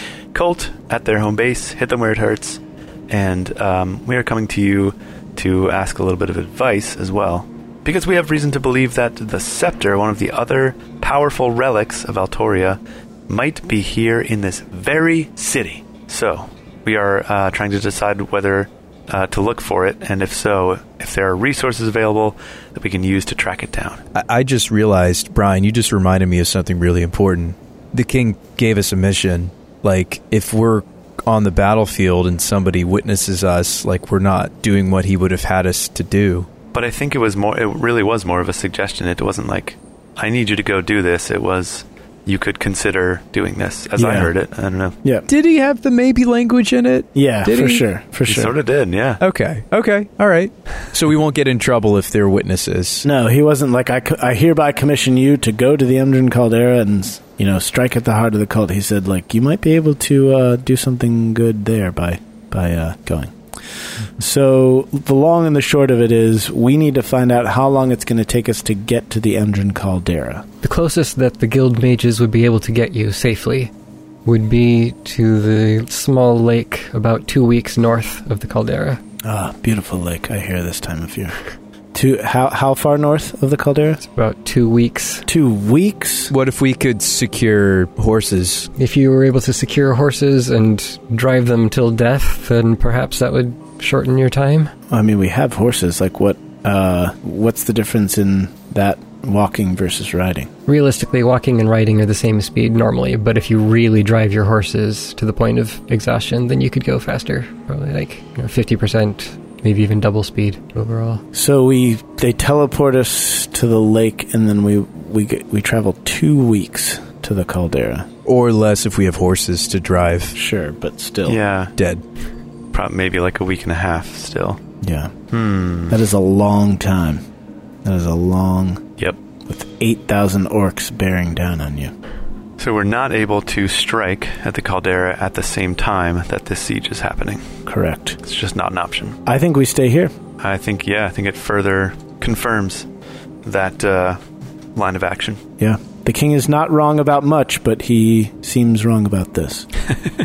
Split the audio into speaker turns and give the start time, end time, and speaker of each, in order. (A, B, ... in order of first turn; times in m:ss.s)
0:00.3-0:24.0 A
0:24.1-0:36.5 B
0:36.7-0:45.0 A
0:44.0-0:44.3 C
0:45.3-0:47.8 B
0:47.2-0:48.5 C
0:48.3-0:49.2 A
0:49.2-0:53.1 B
0:53.0-1:03.4 C
1:04.0-1:10.5 C
1:10.6-1:13.7 D
1:14.2-1:19.0 D
1:19.2-1:21.4 C
1:21.9-1:24.0 C
1:24.0-1:25.3 D
1:25.3-1:26.3 C
1:26.3-1:28.7 B
1:28.8-1:34.7 D
1:34.9-1:40.5 C
1:40.7-1:51.2 D
1:51.3-1:58.1 C
1:58.3-2:00.4 B
2:00.3-2:01.4 C
2:01.3-2:01.7 A
2:01.8-2:02.0 B
2:02.7-2:04.6 A
2:04.8-2:05.1 C
2:05.3-2:06.0 A
2:05.9-2:07.2 C
2:07.8-2:08.8 C
2:09.5-2:11.9 C
2:12.6-2:17.5 A
2:17.7-2:18.2 C
2:18.2-2:19.2 A
2:19.3-2:20.1 C
2:20.4-2:22.9 A
2:23.4-2:24.2 A
2:24.8-2:25.4 A
2:25.6-2:29.7 C